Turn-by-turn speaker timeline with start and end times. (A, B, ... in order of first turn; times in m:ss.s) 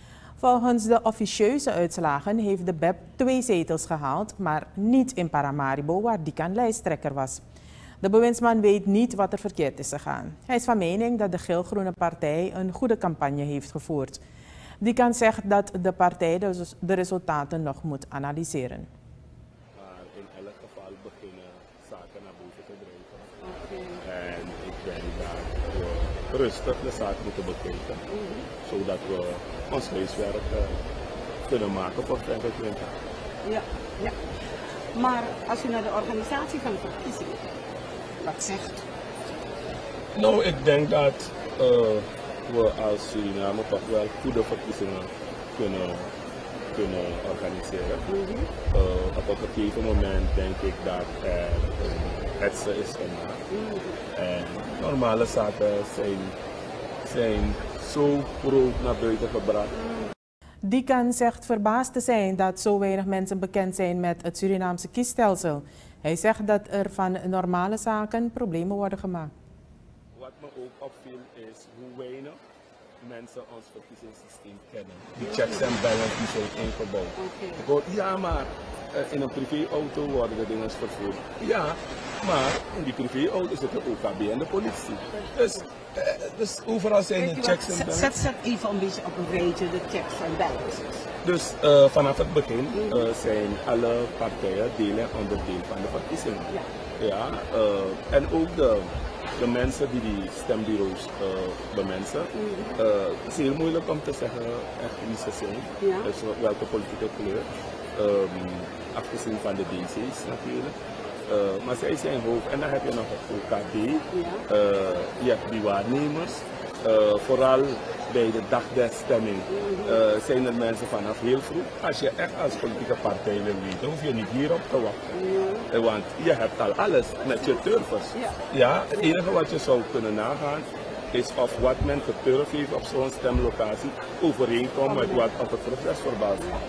0:00.4-0:07.4 A
0:08.0-0:14.2 A
0:14.8-0:18.9 A
0:19.7-0:23.4 B
0:23.4-0:24.0 C
0:24.0-0:28.0 B
0:28.1-0:28.5 C
0:28.6-0:30.8 B
0:31.4-0:33.0 B
0:33.4-0:34.2 C
0:34.9-0:37.5 C
0:38.2-0:38.8 C
0:40.1-0:46.1 B
0:46.7-0:48.1 B
0:48.1-0:48.5 C
0:48.6-0:53.4 B
0:53.5-0:54.0 C
0:54.1-0:56.4 B
0:57.0-0:59.8 B
1:00.6-1:09.3 A
1:10.1-1:12.4 B
1:13.0-1:28.2 B
1:15.2-1:15.7 C
1:17.2-1:17.6 C
1:27.2-1:31.0 C
1:31.2-2:05.1 B
1:32.7-1:33.1 C
1:42.3-1:42.8 C
1:45.8-1:46.1 C
1:54.1-1:54.4 C
1:59.5-2:00.0 C
2:05.1-2:05.7 C
2:05.7-2:16.6 B
2:14.9-2:15.2 C